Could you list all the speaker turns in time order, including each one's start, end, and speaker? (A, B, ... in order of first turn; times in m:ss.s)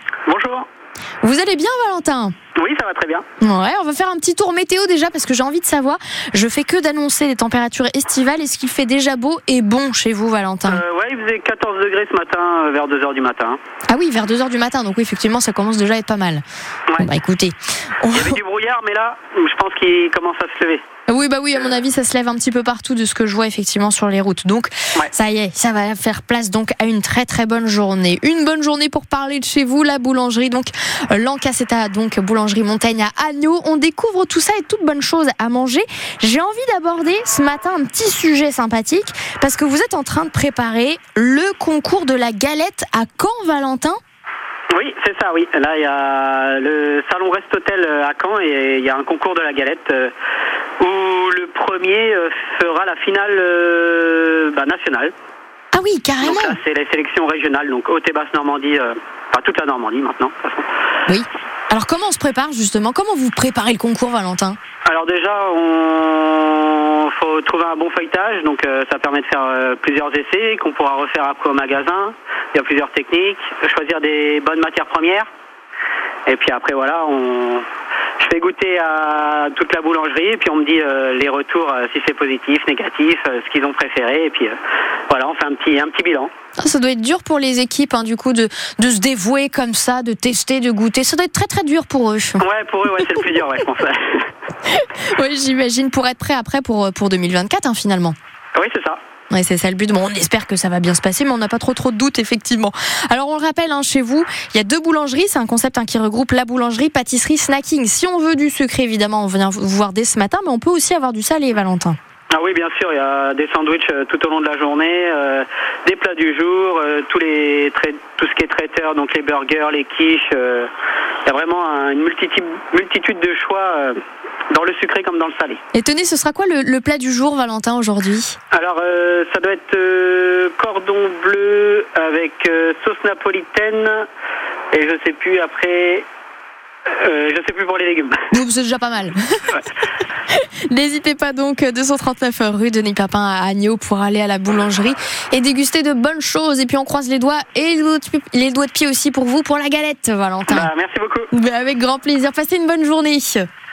0:00.3-0:00.7 A
0:01.2-0:02.4 B
0:02.6-0:03.2 A
0:03.4-0:10.8 B
0:10.7-0:13.6 A
0:13.9-0:16.4 B
0:17.0-0:18.4 B
0:18.1-0:20.8 A
0:21.1-0:44.0 B
0:44.7-0:50.1 A
0:50.8-0:55.1 A
0:55.7-0:56.6 B
0:56.2-1:00.7 A
1:01.1-1:04.6 B
1:04.9-1:15.3 A
1:16.3-1:17.7 A
1:18.2-1:24.6 A
1:25.1-1:26.3 A
1:26.6-1:32.4 B
1:32.4-1:34.3 A
1:34.7-1:38.2 B
1:38.6-1:39.0 A
1:39.3-1:52.0 B
1:52.3-2:00.7 A
2:01.3-2:04.0 A
2:04.5-2:05.6 A
2:05.7-2:08.4 B
2:08.5-2:14.1 A
2:14.7-2:16.1 A
2:16.9-2:18.3 A
2:18.3-2:19.6 B
2:20.3-2:30.7 B
2:30.5-2:31.3 A
2:31.3-2:33.5 B